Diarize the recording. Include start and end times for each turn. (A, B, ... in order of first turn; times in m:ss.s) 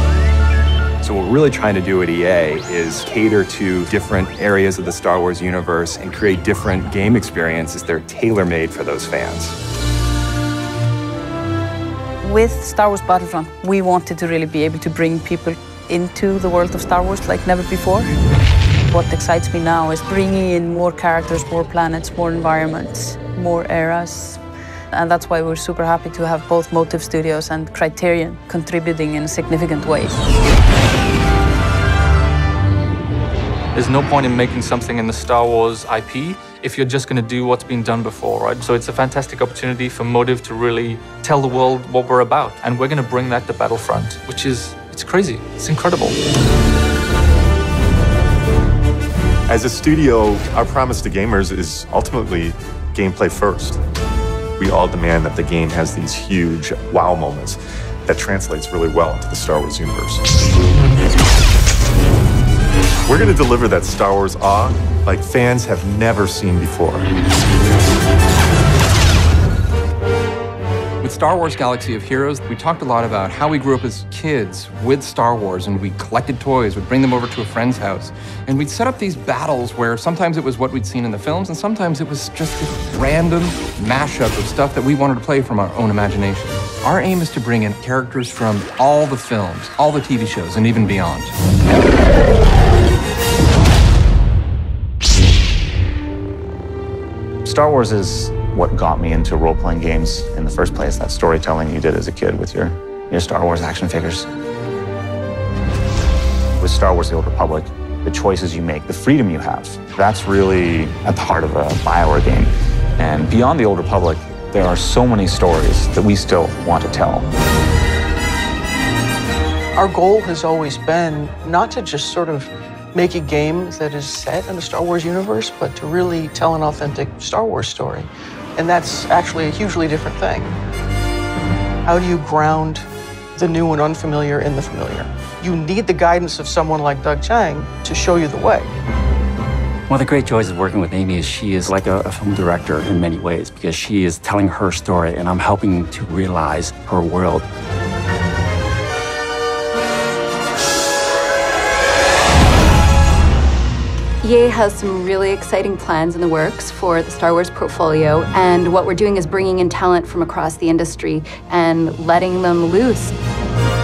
0:01.0-0:09.5 A
0:12.2-0:18.1 B
0:18.9-0:30.2 B
0:33.8-0:46.2 C
0:49.5-0:53.8 D
0:54.6-1:00.2 D
1:03.1-1:07.1 D
1:11.0-1:31.3 E
1:37.4-1:44.3 F
1:46.6-1:57.3 F
1:59.8-2:10.6 G
2:11.9-2:18.7 G
2:19.9-2:27.4 H
2:34.2-2:43.1 I